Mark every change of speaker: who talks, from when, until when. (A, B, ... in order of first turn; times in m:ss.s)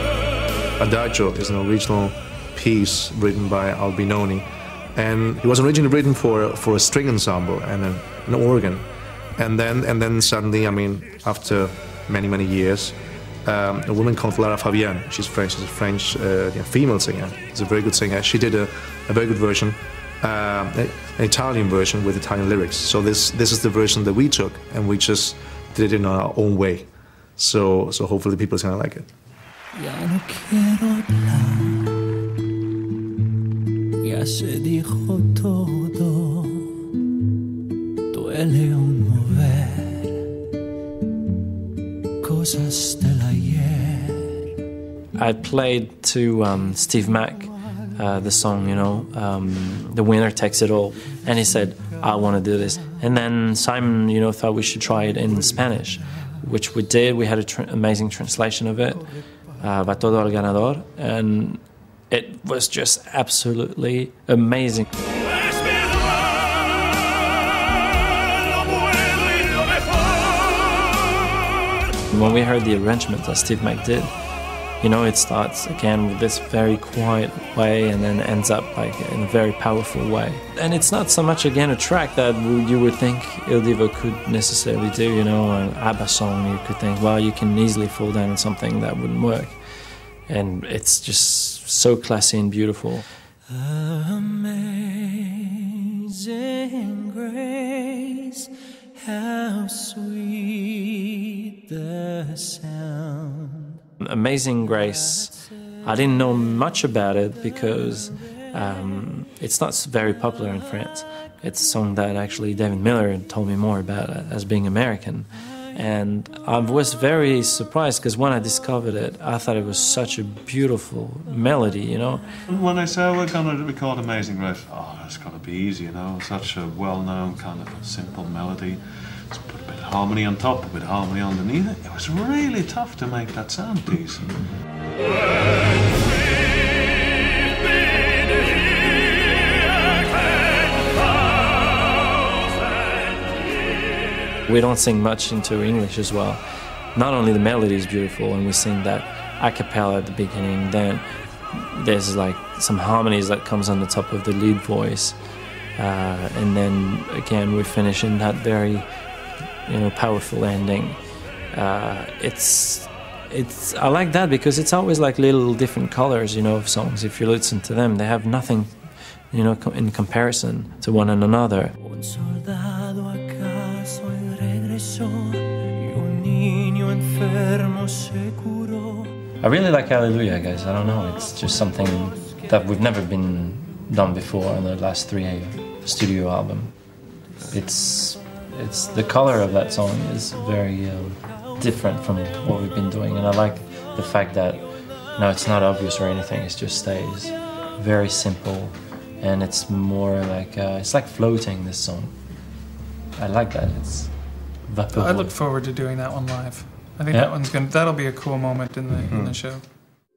0:00.8-0:08.8 A
0:09.4-0:29.1 A
0:29.7-0:32.1 B
0:34.0-0:36.7 B
0:38.1-0:40.3 B
0:42.2-0:44.4 B
0:45.2-0:59.1 C
0:59.6-1:04.9 C
1:05.4-1:06.2 B
1:08.5-1:10.9 B
1:12.1-1:14.1 C
1:14.8-1:29.6 C
1:30.3-1:33.0 C
1:33.5-1:43.8 B
1:44.0-2:02.2 C
2:02.5-2:14.3 D
2:24.4-2:26.4 C
2:26.9-2:35.2 C
2:35.8-2:38.9 C
2:39.6-2:41.0 C
2:41.5-2:48.8 C
2:49.3-2:51.7 C
2:51.8-2:59.2 B
2:59.4-3:06.9 C
3:07.5-3:14.6 C
3:15.2-3:22.1 C
3:23.2-3:24.1 C
3:24.7-3:25.3 C
3:24.9-3:29.6 E
3:29.1-3:29.4 A